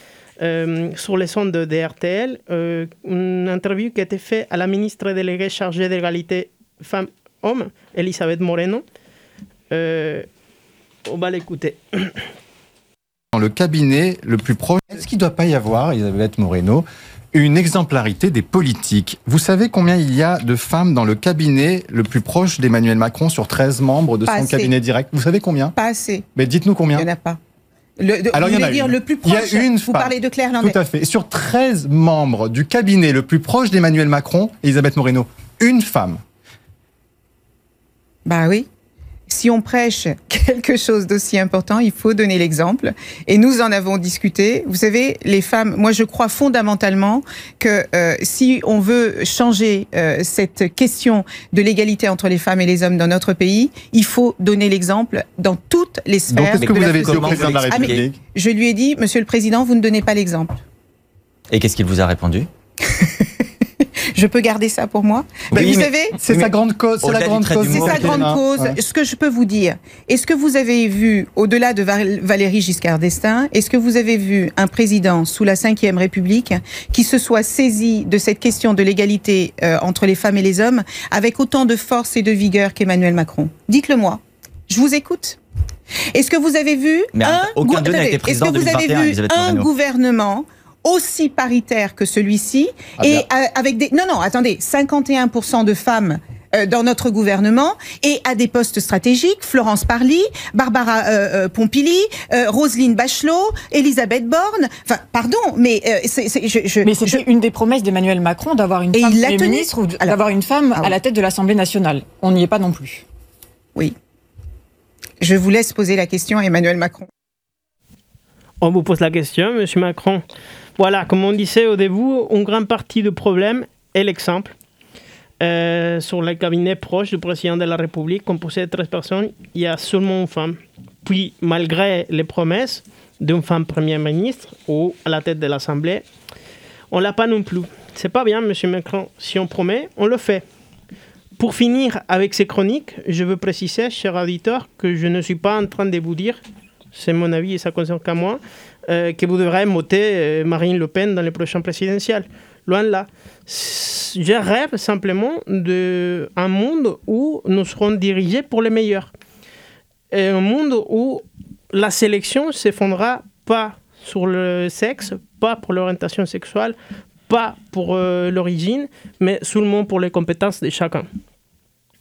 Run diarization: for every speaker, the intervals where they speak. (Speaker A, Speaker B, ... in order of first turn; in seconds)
Speaker A: 0.4-8.8, 9.7-10.2, 11.1-12.2, 118.6-120.2, 120.8-124.5, 125.4-136.0, 136.9-140.4, 141.4-146.4, 146.9-159.1, 160.1-166.8, 167.3-171.1
Speaker B: 13.3-25.7, 26.3-27.1, 28.3-36.2, 56.3-58.2, 65.5-68.7
Speaker C: 24.3-24.7, 25.8-26.3, 26.9-27.4, 28.0-30.8, 38.2-38.7, 39.3-60.6, 64.1-66.2, 67.7-85.4, 86.1-107.2, 108.9-110.2, 115.2-117.1
Speaker D: 56.6-58.0, 61.5-62.5, 65.5-68.3, 87.1-89.7
Speaker E: 106.8-113.0